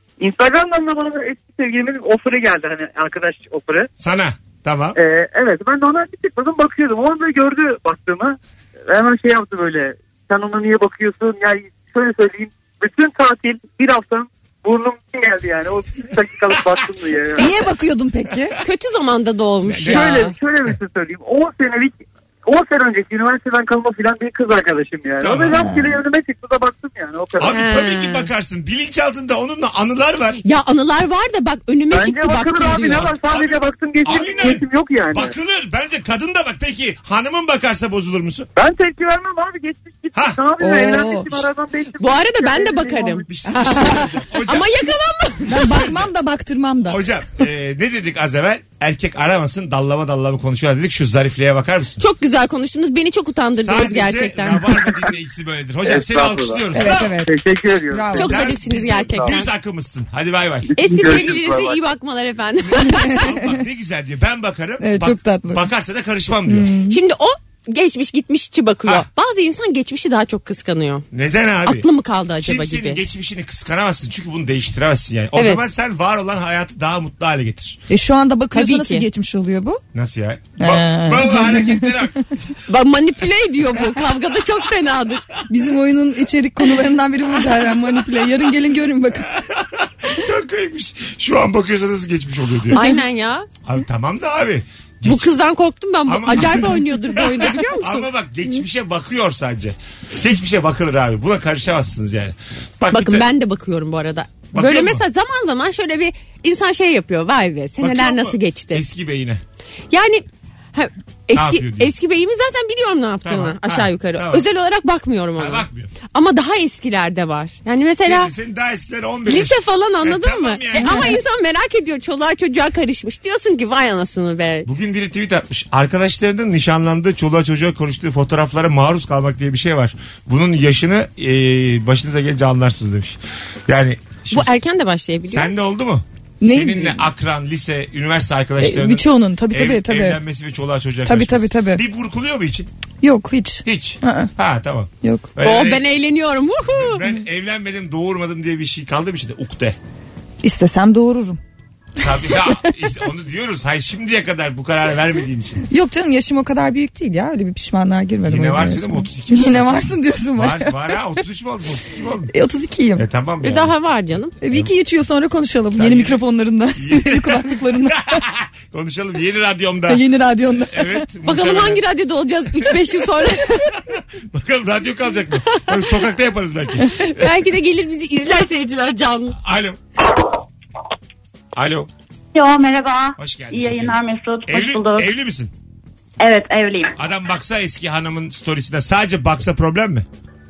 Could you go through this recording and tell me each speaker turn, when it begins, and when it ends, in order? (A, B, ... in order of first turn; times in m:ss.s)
0:00.2-0:03.9 A
0:04.0-0:05.0 B
0:04.9-0:08.4 A
0:08.9-0:17.7 A
0:17.4-0:18.6 C
0:18.6-0:20.3 D
0:19.6-0:20.2 B
0:19.9-0:27.5 A
0:25.2-0:25.6 B
0:25.6-0:25.9 C
0:27.4-0:30.4 B
0:27.4-0:28.3 D
0:30.4-0:33.2 D
0:31.9-0:35.3 A
0:34.0-0:38.5 B
0:38.5-0:43.4 A
0:40.1-0:40.4 B
0:40.6-0:41.4 C
0:42.0-0:45.7 D
0:43.3-0:44.9 B
0:43.5-0:44.1 C
0:45.4-0:46.1 B
0:45.5-0:47.0 C
0:46.9-0:52.0 B
0:52.0-0:54.8 D
0:53.5-0:57.1 B
0:55.8-0:58.4 A
0:56.7-0:57.3 C
0:57.9-0:58.3 C
0:58.1-0:59.5 D
0:58.2-1:00.7 B
0:59.1-0:59.3 A
1:00.7-1:01.8 A
1:00.8-1:03.2 D
1:02.7-1:06.7 B
1:02.9-1:03.5 C
1:04.8-1:05.6 C
1:06.5-1:07.0 C
1:06.9-1:11.0 D
1:11.1-1:11.9 B
1:11.6-1:13.0 D
1:12.4-1:17.8 B
1:15.4-1:15.6 D
1:17.9-1:19.8 C
1:18.5-1:19.0 D
1:19.9-1:22.5 B
1:20.6-1:22.0 C
1:22.7-1:25.2 D
1:25.5-1:29.3 C
1:29.3-1:32.8 B
1:32.7-1:33.5 D
1:33.6-1:35.3 B
1:35.0-1:38.1 D
1:36.1-1:43.3 B
1:42.9-1:48.8 D
1:44.5-1:45.0 B
1:47.8-1:49.4 B
1:49.9-1:58.3 D
1:51.3-1:51.9 B
1:53.2-1:54.4 B
1:55.4-1:55.9 B
1:58.0-2:01.2 B
1:59.2-2:04.7 D
2:00.8-2:01.1 C
2:04.6-2:14.6 B
2:14.3-2:15.5 D
2:15.3-2:22.7 B
2:16.4-2:17.0 C
2:18.6-2:20.2 C
2:21.0-2:21.8 C
2:23.0-2:24.3 C
2:23.6-2:25.8 B
2:25.0-2:25.3 C
2:25.4-2:27.0 D
2:26.7-2:29.8 B
2:30.4-2:31.4 C
2:32.0-2:35.6 B
2:32.2-2:32.7 C
2:35.7-2:41.0 C
2:38.2-2:42.3 B
2:42.3-2:43.0 C
2:43.0-2:43.7 B
2:43.4-2:44.3 D
2:44.4-2:44.7 B
2:44.4-2:48.1 C
2:45.8-2:46.2 B
2:46.8-2:51.8 B
2:49.9-2:51.1 C
2:51.2-2:53.7 D
2:52.5-2:52.9 B
2:53.9-2:57.3 B
2:56.8-2:59.4 D
2:59.3-2:59.8 B
3:01.5-3:01.9 B
3:02.3-3:05.1 E
3:03.2-3:05.5 B
3:06.2-3:06.9 E
3:07.0-3:10.0 B